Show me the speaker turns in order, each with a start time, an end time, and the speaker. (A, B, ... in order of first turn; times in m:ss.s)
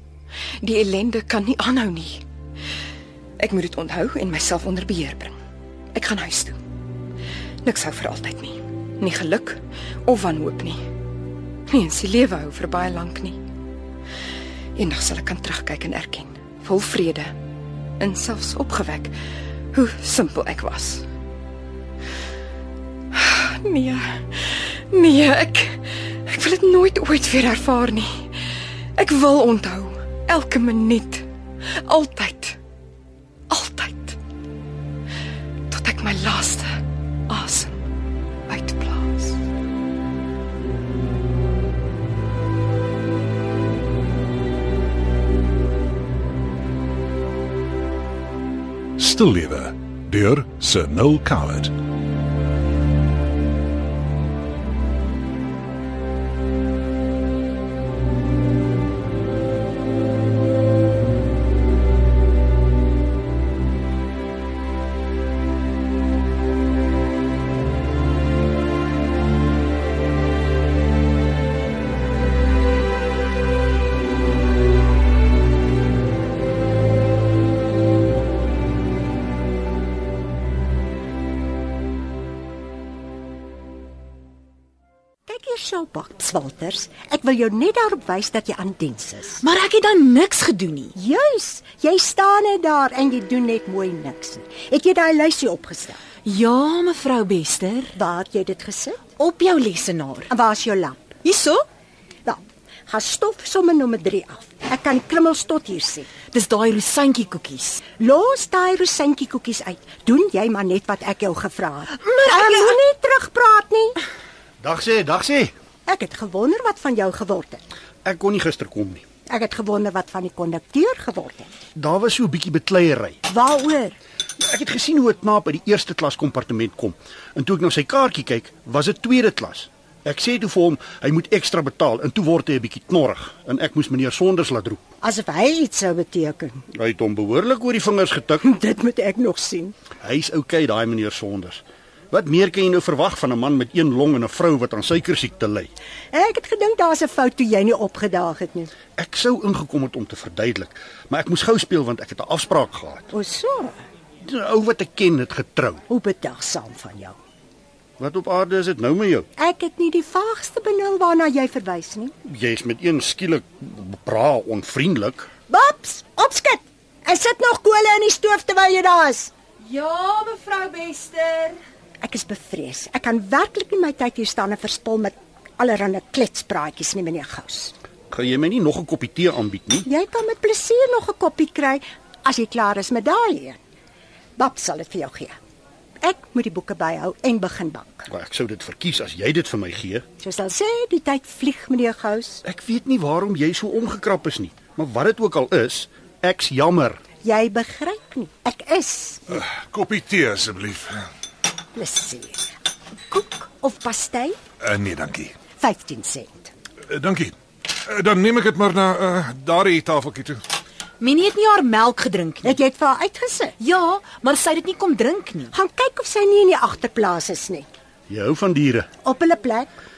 0:00.6-0:02.2 A
0:03.4-0:05.3 A
0:05.9-0:06.6 A
0:07.6-0:10.8 A
0:11.7-0:13.4 A
0:14.8-0:17.3 A
0:18.0-0:19.1 A
0:19.7-0:21.0 A
0:23.1-0:32.6 A
0:33.5-0:34.2 A
0:35.7-0:37.8 A
0:38.5-0:39.4 A
0:49.0-0:51.7 B
1:25.3-1:29.4 C
1:29.4-1:30.9 D
1:30.9-1:36.0 C
1:36.2-1:37.9 D
1:37.9-1:39.1 C
1:39.2-1:40.3 D
1:40.3-1:41.2 C
1:41.2-1:41.6 D
1:42.2-1:46.1 C
1:46.3-1:47.8 D
1:47.9-1:54.0 C
1:52.1-1:52.7 D
1:54.6-1:55.5 E
1:55.9-1:57.6 C
1:58.0-1:59.0 E
1:59.2-2:01.5 C
2:01.8-2:03.2 E
2:03.3-2:04.0 C
2:04.4-2:14.8 E
2:15.0-2:16.6 C
2:16.7-2:18.4 E
2:18.4-2:19.7 C
2:20.0-2:25.7 E
2:26.1-2:28.7 C
2:29.0-2:33.1 E
2:33.1-2:33.8 C
2:34.2-2:35.8 E
2:35.9-2:37.2 C
2:38.0-2:39.3 E
2:39.4-2:42.1 C
2:42.2-2:45.3 E
2:45.5-2:49.3 C
2:49.6-2:51.6 D
2:52.0-2:57.7 C
2:58.1-2:59.8 E
2:59.8-3:03.6 C
3:04.4-3:05.4 C
3:06.0-3:08.1 C
3:08.1-3:10.0 E
3:10.2-3:12.4 C
3:12.4-3:17.0 E
3:17.2-3:19.4 C
3:19.3-3:21.1 B
3:21.7-3:22.5 C
3:23.1-3:24.4 C
3:24.6-3:25.3 B
3:25.6-3:26.5 C
3:26.9-3:27.3 B
3:27.8-3:30.4 B
3:31.0-3:32.6 D
3:32.4-3:33.5 C
3:33.6-3:35.5 D
3:35.5-3:37.7 C
3:38.1-3:38.9 E
3:39.0-3:39.8 C